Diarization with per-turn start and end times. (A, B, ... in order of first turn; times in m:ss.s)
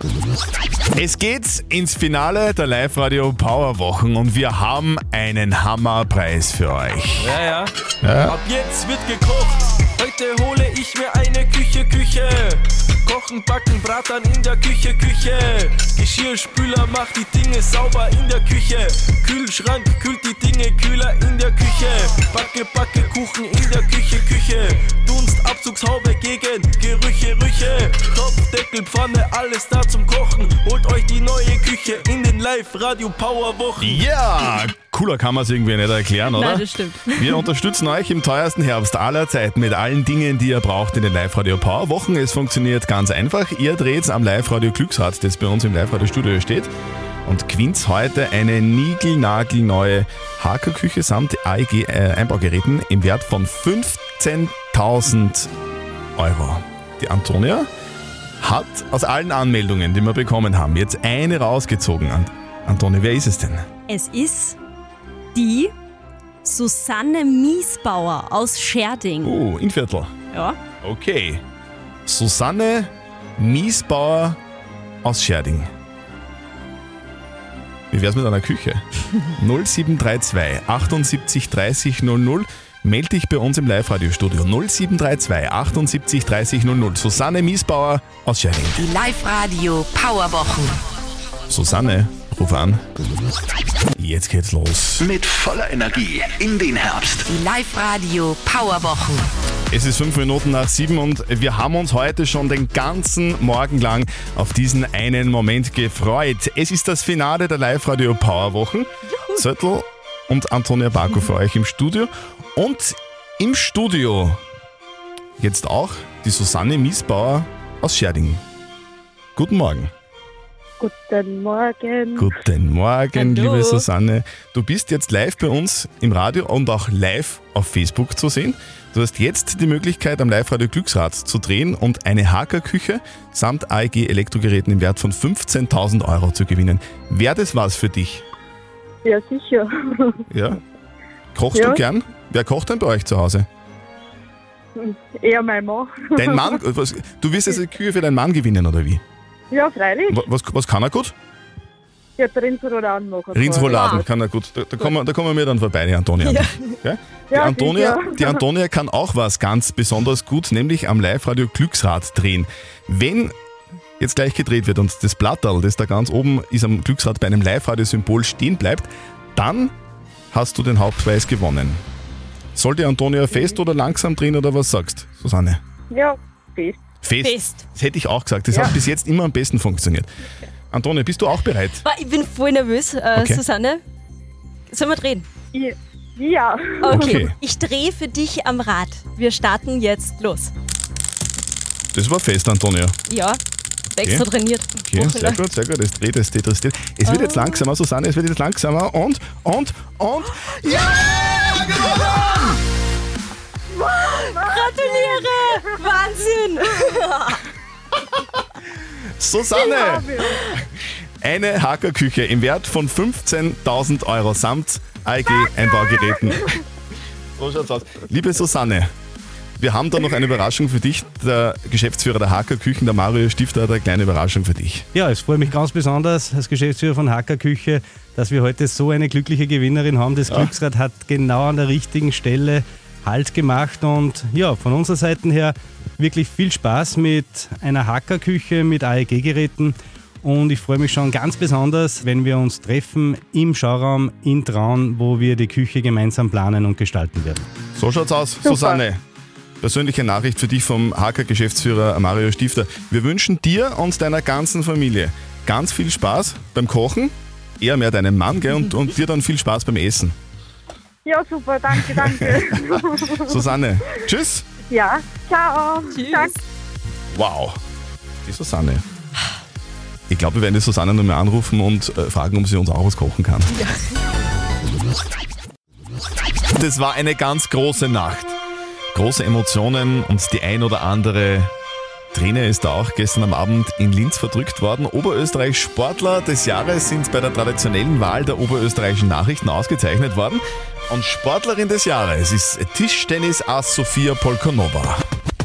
0:01.0-0:07.4 A
0:07.2-0:07.7 B
0:08.0-0:08.4 A
0:08.2-0:34.0 B
0:33.8-0:46.7 A
0:36.3-0:37.4 C
0:47.2-0:55.5 A
0:56.2-0:57.7 A
0:58.4-1:03.6 A
1:03.9-1:04.6 C
1:05.3-1:05.7 C
1:06.4-1:09.3 C
1:09.2-1:10.1 A
1:10.3-1:10.6 C
1:10.8-1:11.4 A
1:12.0-1:14.4 A
1:15.0-1:15.7 A
1:17.9-1:28.9 A
1:28.8-1:30.8 D
1:31.5-1:32.8 A
1:34.0-1:35.1 A
1:35.0-1:37.3 E
1:37.3-1:39.3 D
1:39.7-1:54.4 A
1:49.1-1:49.4 C
1:55.4-1:58.4 A
1:59.4-1:59.9 A
2:00.8-2:02.2 F
2:02.2-2:18.2 A
2:03.1-2:03.8 C
2:19.0-2:20.1 F
2:20.3-2:20.6 A
2:21.3-2:23.5 A
2:21.5-2:21.8 F
2:24.8-2:26.4 F
2:26.2-2:29.0 A
2:29.5-2:30.2 F
2:30.1-2:31.1 A
2:32.2-2:33.7 F
2:33.3-2:43.3 A
2:33.7-2:34.0 C
2:36.2-2:36.8 C
2:37.3-2:38.3 F
2:44.0-2:49.7 A
2:50.3-2:51.8 A
2:52.6-2:55.6 A
2:55.9-2:56.8 F
2:57.0-3:00.1 A
2:57.2-2:57.6 C
3:00.7-3:01.8 A
3:01.8-3:03.8 C
3:03.1-3:03.4 A
3:04.7-3:05.3 C
3:05.5-3:07.1 F
3:06.8-3:10.5 C
3:06.9-3:07.3 A
3:11.9-3:13.0 A
3:13.1-3:13.4 C
3:13.9-3:15.4 C
3:14.0-3:14.2 A
3:14.9-3:22.4 A
3:17.0-3:17.6 C
3:23.9-3:27.4 C
3:24.4-3:25.6 F
3:29.2-3:30.2 A
3:29.6-3:30.3 F
3:31.2-3:36.5 A
3:37.4-3:38.9 A
3:39.6-3:44.9 A
3:44.9-4:07.5 G
3:50.3-3:50.5 A
4:07.8-4:09.0 A
4:08.4-4:08.8 F
4:09.6-4:20.1 A
4:21.0-4:23.0 F
4:21.8-4:24.4 A
4:24.7-4:26.3 F
4:25.9-4:26.3 C
4:27.1-4:27.6 A
4:28.2-4:28.8 A
4:30.1-4:33.5 A
4:36.5-4:38.4 A
4:38.9-4:41.5 A
4:42.1-4:55.0 A